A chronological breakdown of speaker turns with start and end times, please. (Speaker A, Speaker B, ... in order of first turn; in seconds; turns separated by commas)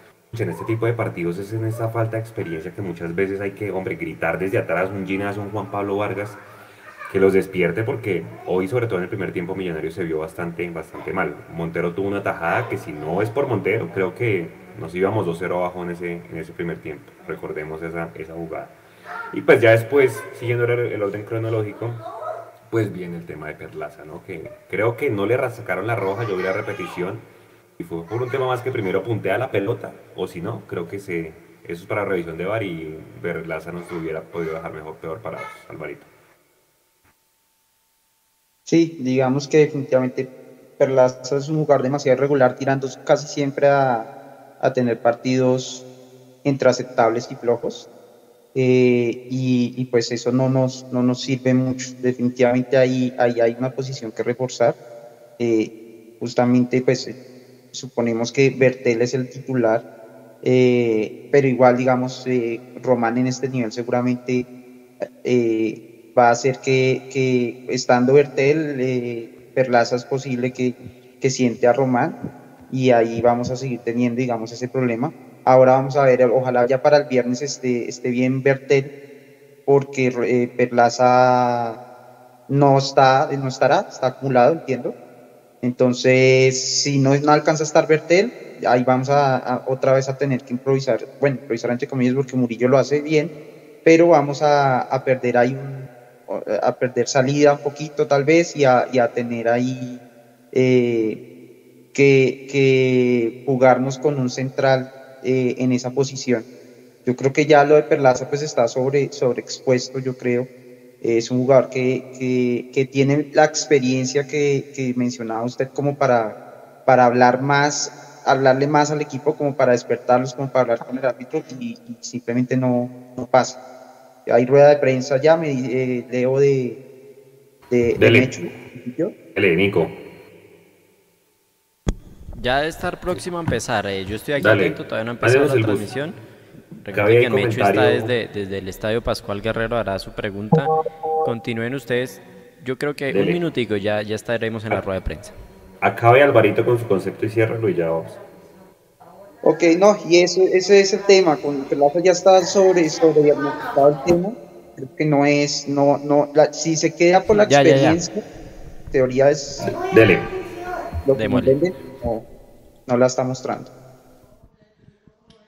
Speaker A: 0.3-6.4, Speaker A: 7.1-18.7, Speaker A: 19.3-22.0, Speaker A: 22.7-36.1, Speaker B: 38.6-45.8, Speaker B: 46.4-47.9, Speaker B: 48.5-54.8, Speaker B: 55.4-57.1, Speaker B: 57.7-59.8, Speaker B: 60.4-64.5, Speaker B: 65.2-72.2, Speaker B: 72.7-78.9, Speaker B: 79.7-81.8, Speaker B: 82.5-84.9, Speaker B: 85.6-93.3, Speaker B: 93.8-100.0, Speaker B: 100.5-101.2, Speaker B: 101.9-106.5, Speaker B: 107.0-110.5, Speaker B: 111.0-123.6, Speaker B: 124.2-126.8, Speaker B: 127.7-129.1, Speaker A: 128.0-128.3, Speaker A: 129.3-130.0, Speaker C: 132.4-136.2, Speaker A: 134.4-135.9, Speaker C: 136.8-140.7, Speaker A: 136.9-138.1, Speaker C: 141.2-145.3, Speaker A: 143.1-143.4, Speaker A: 145.8-148.2, Speaker B: 149.4-158.2, Speaker C: 157.3-158.0, Speaker B: 158.9-159.8, Speaker A: 159.8-160.3, Speaker B: 161.0-162.3, Speaker C: 161.1-161.5, Speaker B: 162.9-163.7